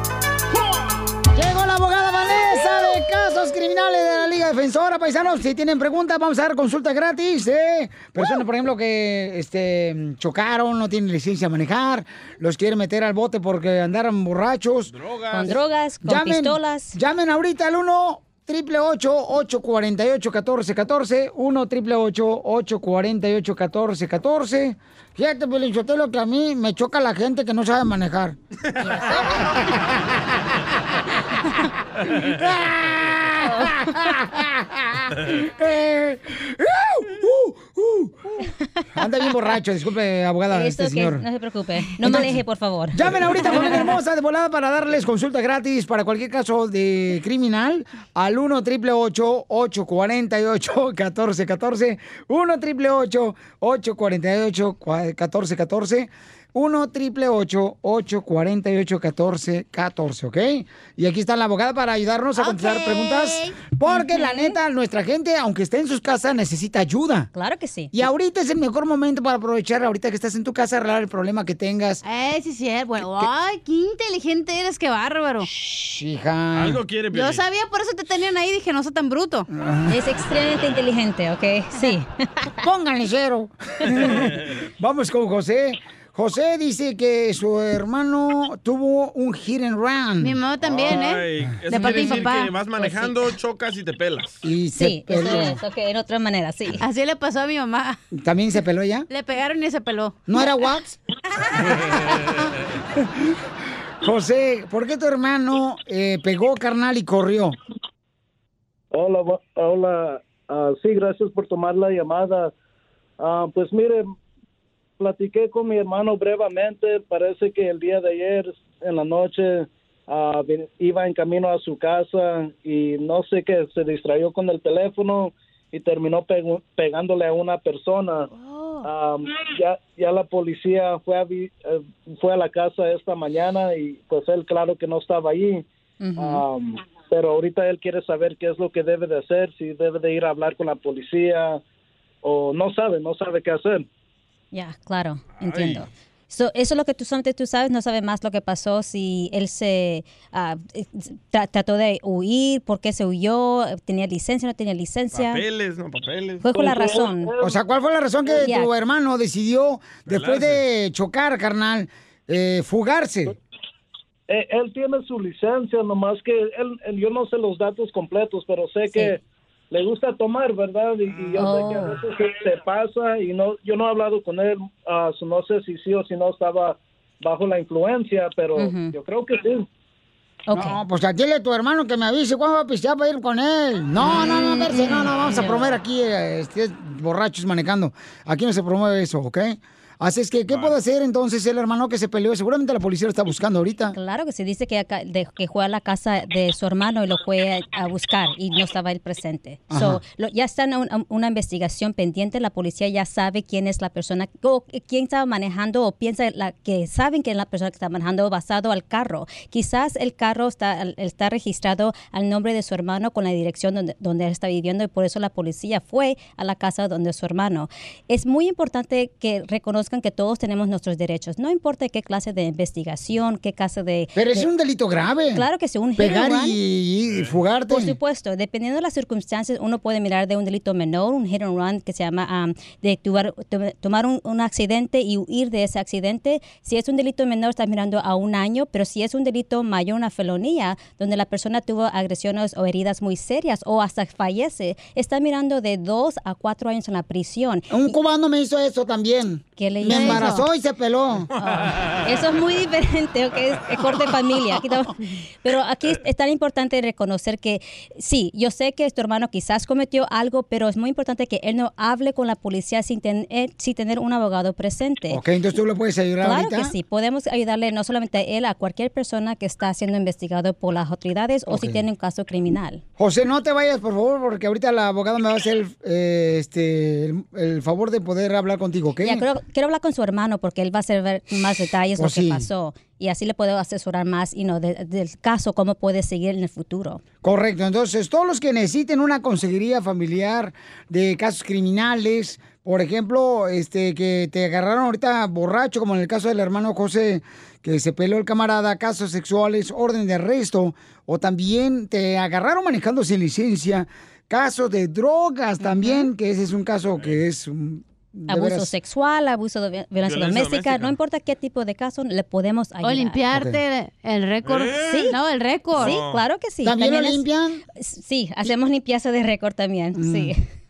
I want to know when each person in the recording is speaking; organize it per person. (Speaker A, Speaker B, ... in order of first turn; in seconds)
Speaker A: 1.3-14.9, 16.0-28.4, 29.1-29.7, 32.3-38.3, 38.9-41.2, 42.0-67.3, 67.9-72.0, 73.0-73.3, 75.6-76.8, 79.5-80.0, 82.6-90.4, 94.4-95.6, 98.1-99.1, 100.3-101.0, 104.0-107.5, 157.4-163.3, 180.5-193.9, 199.7-200.0, 224.1-227.9, 247.7-251.3, 265.1-266.7, 271.5-271.9, 273.0-279.2, 281.9-282.5, 287.2-308.7, 313.3-313.6, 316.6-317.6, 319.9-320.3
Speaker B: 14.9-15.6, 76.5-77.4, 90.6-94.4, 145.3-145.8, 155.1-156.4, 160.1-160.6, 251.4-251.9, 310.1-310.9, 314.4-315.0, 315.7-316.2
Speaker C: 15.3-17.0, 40.5-43.9, 63.9-64.5, 67.3-67.9, 79.9-82.1, 94.8-96.8, 136.0-136.4, 144.5-155.4, 156.4-157.3, 158.3-158.7, 171.4-171.9, 178.6-178.9, 180.5-180.8, 184.0-185.7, 193.9-224.5, 225.3-226.6, 227.7-247.9, 249.6-250.4, 252.0-265.2, 266.2-272.8, 279.0-287.0, 308.3-313.2, 314.8-315.1, 315.8-317.2, 317.8-320.4
Speaker D: 62.4-63.6, 72.0-75.5, 77.1-79.5, 90.2-93.2, 96.8-98.0, 99.1-100.4, 128.3-128.8, 184.2-185.0, 249.8-250.5, 251.4-251.8, 312.8-316.0
Speaker E: 108.9-112.5, 113.2-114.1, 115.0-128.3, 128.8-135.6, 136.2-141.6, 142.2-143.8, 156.5-157.6, 164.3-169.2, 169.7-179.6